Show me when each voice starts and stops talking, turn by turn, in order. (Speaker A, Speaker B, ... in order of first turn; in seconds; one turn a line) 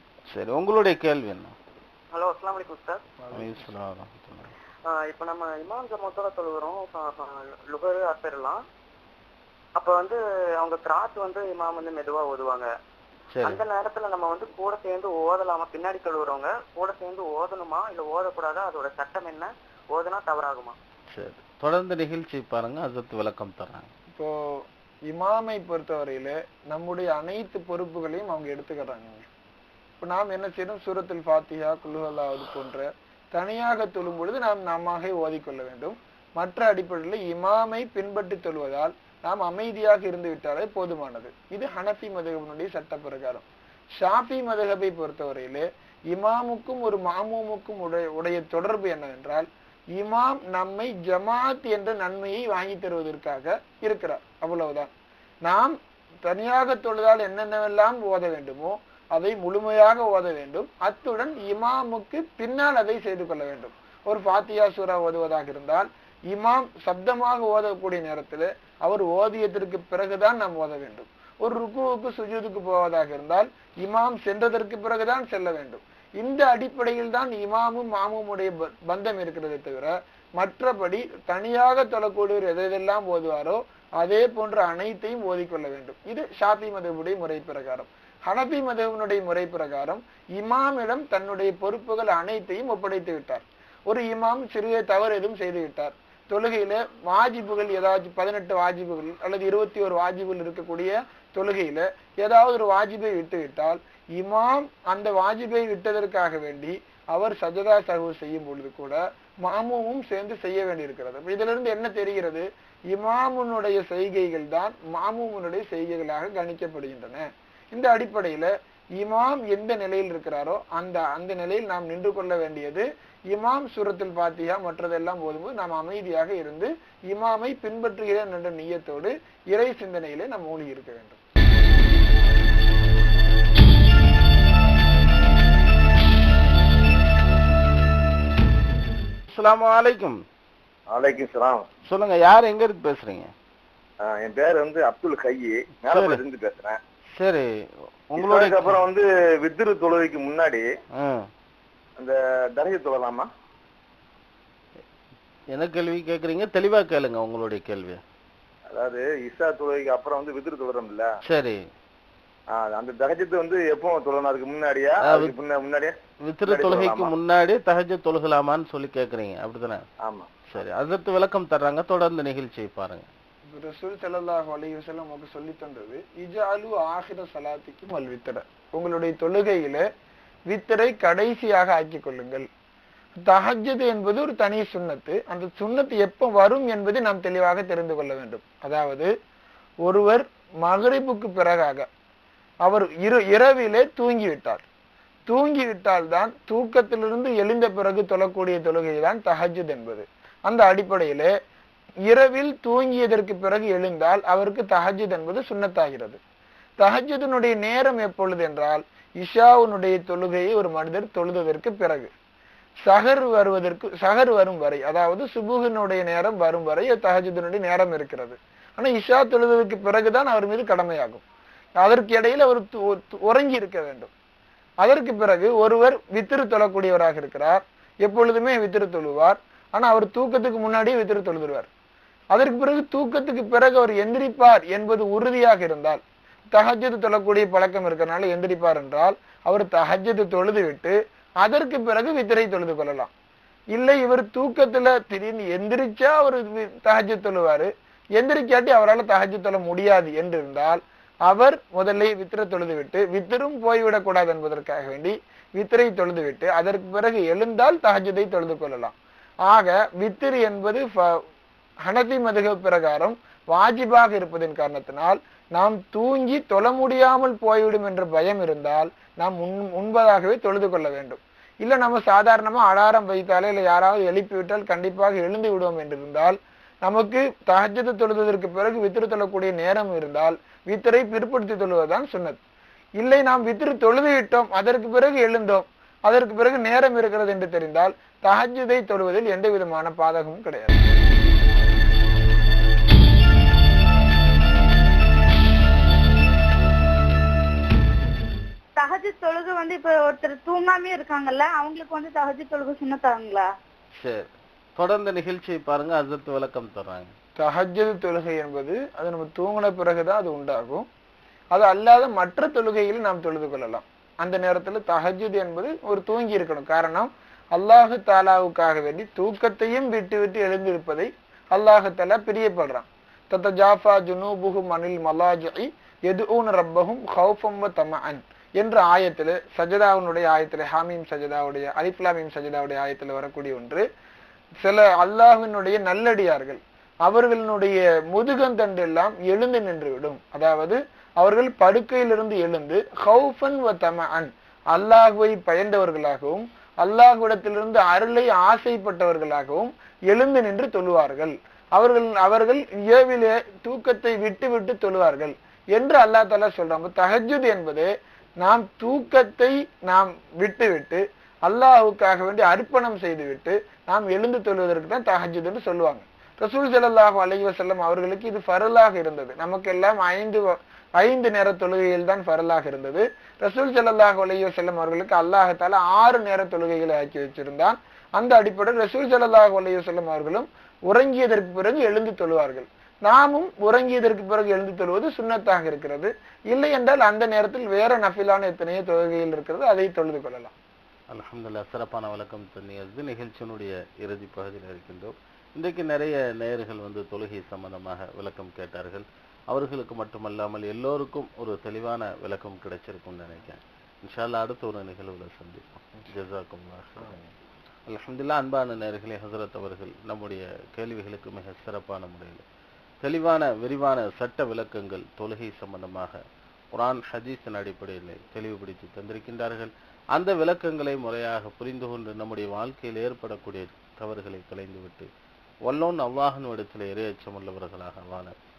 Speaker A: 0.3-1.5
Speaker B: 2.1-3.0
Speaker C: 3.2-3.7
Speaker A: 3.3-4.5
Speaker B: 4.9-8.6
Speaker B: 9.8-12.7
Speaker A: 13.3-13.6
Speaker B: 13.4-20.8
Speaker A: 21.1-23.9
Speaker C: 24.1-29.3
Speaker C: 30.0-43.5
Speaker C: 44.0-54.9
Speaker C: 55.5-131.2
Speaker A: 139.3-140.2
Speaker D: 140.9-141.6
Speaker A: 141.9-143.3
Speaker D: 144.1-146.8
Speaker A: 145.9-146.2
Speaker A: 147.2-147.5
Speaker A: 148.1-148.8
Speaker D: 148.2-150.6
Speaker A: 151.0-151.3
Speaker D: 152.0-153.3
Speaker A: 155.5-158.0
Speaker D: 158.7-161.1
Speaker A: 161.3-161.6
Speaker D: 162.5-165.9
Speaker A: 165.0-165.3
Speaker A: 166.2-169.8
Speaker D: 166.5-167.1
Speaker D: 170.0-170.3
Speaker A: 170.5-173.1
Speaker C: 173.5-179.8
Speaker C: 180.5-182.5
Speaker C: 183.2-189.1
Speaker C: 189.8-191.9
Speaker C: 192.6-194.7
Speaker C: 195.3-201.3
Speaker C: 202.1-206.2
Speaker C: 206.8-212.1
Speaker C: 212.8-221.2
Speaker C: 221.8-224.1
Speaker C: 224.8-231.7
Speaker C: 232.3-243.1
Speaker C: 243.7-261.2
Speaker C: 261.8-282.4
Speaker C: 283.0-290.8
Speaker E: 298.8-303.5
Speaker A: 304.0-307.1
Speaker C: 307.4-310.9
Speaker C: 311.5-333.8
Speaker C: 334.6-357.9
Speaker C: 358.4-390.5
Speaker A: 391.1-407.1
Speaker C: 407.0-407.3
Speaker A: 407.9-412.4
Speaker A: 413.0-416.2
Speaker A: 416.7-425.1
Speaker A: 425.7-428.3